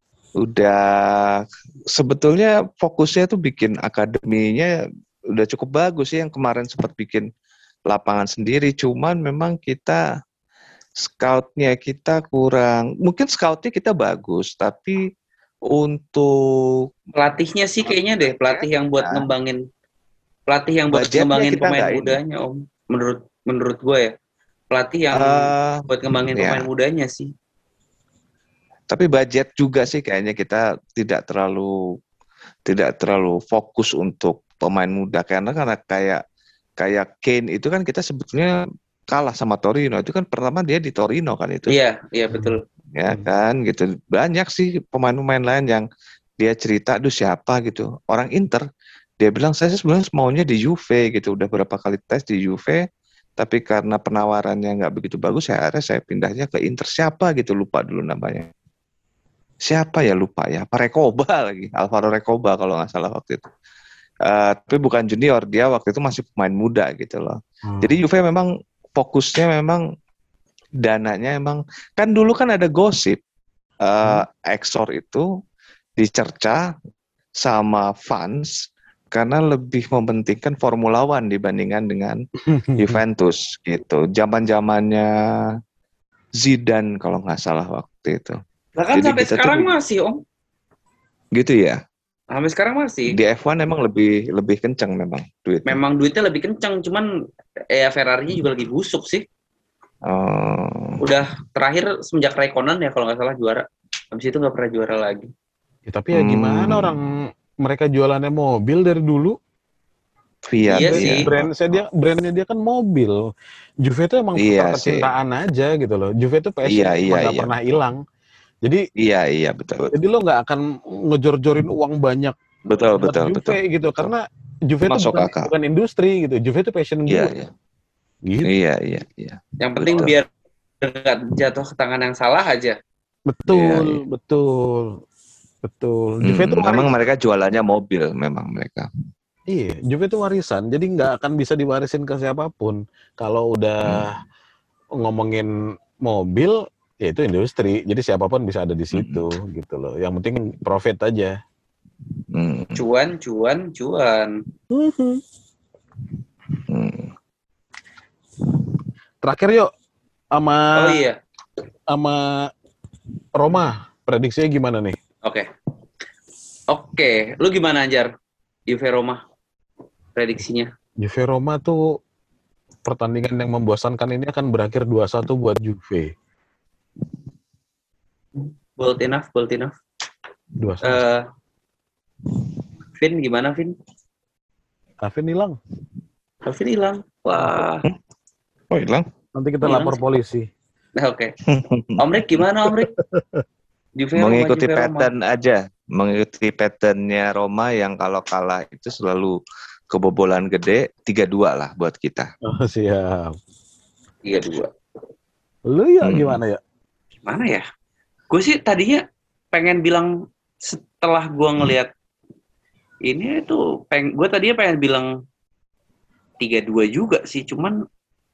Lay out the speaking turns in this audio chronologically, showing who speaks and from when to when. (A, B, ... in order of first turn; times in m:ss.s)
0:00.4-0:04.7 A
0:05.3-0:07.3 A
0:07.9-0:10.0 A
0:11.0-0:15.0 A
0:15.7-0:16.8 A
0:17.1-0:19.6 B
0:17.8-0:19.2 A
0:20.5-0:24.1 B
0:20.9-0:22.2 A
0:24.7-0:27.3 B
0:25.1-0:26.7 A
0:28.9-0:31.7 A
0:32.7-0:36.2 A
0:36.8-0:38.6 A
0:39.1-0:41.7 A
0:41.7-0:42.6 B
0:42.9-0:45.8 A
0:46.4-0:48.6 A
0:49.2-0:52.8 A
0:53.4-0:58.5 A
0:59.6-1:03.5 A
1:04.3-1:09.8 A
1:07.7-1:08.0 C
1:10.8-1:13.2 A
1:13.8-1:15.3 A
1:16.0-1:16.6 A
1:17.4-1:18.5 A
1:19.1-1:22.2 A
1:22.5-1:23.0 C
1:22.8-1:25.5 A
1:26.4-1:28.4 A
1:28.8-1:30.2 B
1:28.9-1:29.7 A
1:31.3-1:31.8 A
1:32.3-1:33.1 B
1:33.1-1:35.8 A
1:35.7-1:37.0 B
1:37.7-1:39.2 B
1:40.0-1:41.0 A
1:41.0-1:45.3 B
1:45.9-1:47.1 C
1:46.1-1:46.9 A
1:47.6-1:49.3 C
1:50.5-1:51.5 A
1:50.7-1:51.3 B
1:50.8-1:53.2 C
1:53.8-1:58.0 C
1:54.4-1:55.1 A
1:56.6-1:57.5 A
1:59.0-1:59.9 A
1:59.9-2:02.3 C
2:02.7-2:04.1 A
2:03.0-2:07.3 C
2:04.8-2:05.5 A
2:07.1-2:07.5 A
2:08.4-2:10.2 A
2:09.6-2:10.3 B
2:10.8-2:12.8 B
2:13.3-2:15.0 C
2:13.5-2:14.0 A
2:15.6-2:16.9 C
2:16.2-2:18.9 A
2:19.5-2:24.2 C
2:25.0-2:25.5 C
2:26.0-2:31.3 C
2:28.9-2:29.2 A
2:32.3-2:32.8 A
2:32.7-2:34.4 B
2:34.7-2:35.2 C
2:36.7-2:37.1 A
2:39.2-2:39.7 C
2:40.3-2:41.0 C
2:40.7-2:41.2 B
2:41.9-2:42.5 C
2:43.4-2:45.0 C
2:46.7-2:48.1 B
2:48.7-2:49.2 B
2:50.2-2:50.7 B
2:51.0-2:51.8 C
2:52.8-2:56.1 C
2:58.4-2:59.8 B
3:00.6-3:01.0 C
3:00.8-3:01.2 B
3:03.0-3:03.7 B
3:05.0-3:05.6 C
3:06.4-3:07.8 B
3:07.5-3:07.9 A
3:08.7-3:09.0 A
3:09.3-3:10.5 C
3:09.6-3:10.0 B
3:11.0-3:11.3 B
3:11.5-3:12.4 A
3:12.0-3:12.9 B
3:13.0-3:13.4 C
3:14.0-3:15.1 B
3:14.2-3:19.4 A
3:19.9-3:22.3 A
3:22.5-3:23.4 C
3:24.3-3:24.7 B
3:25.7-3:26.6 C
3:26.0-3:26.4 A
3:27.2-3:27.6 B
3:28.3-3:30.1 B
3:30.6-3:31.9 B
3:33.1-3:35.1 B
3:36.4-3:37.8 B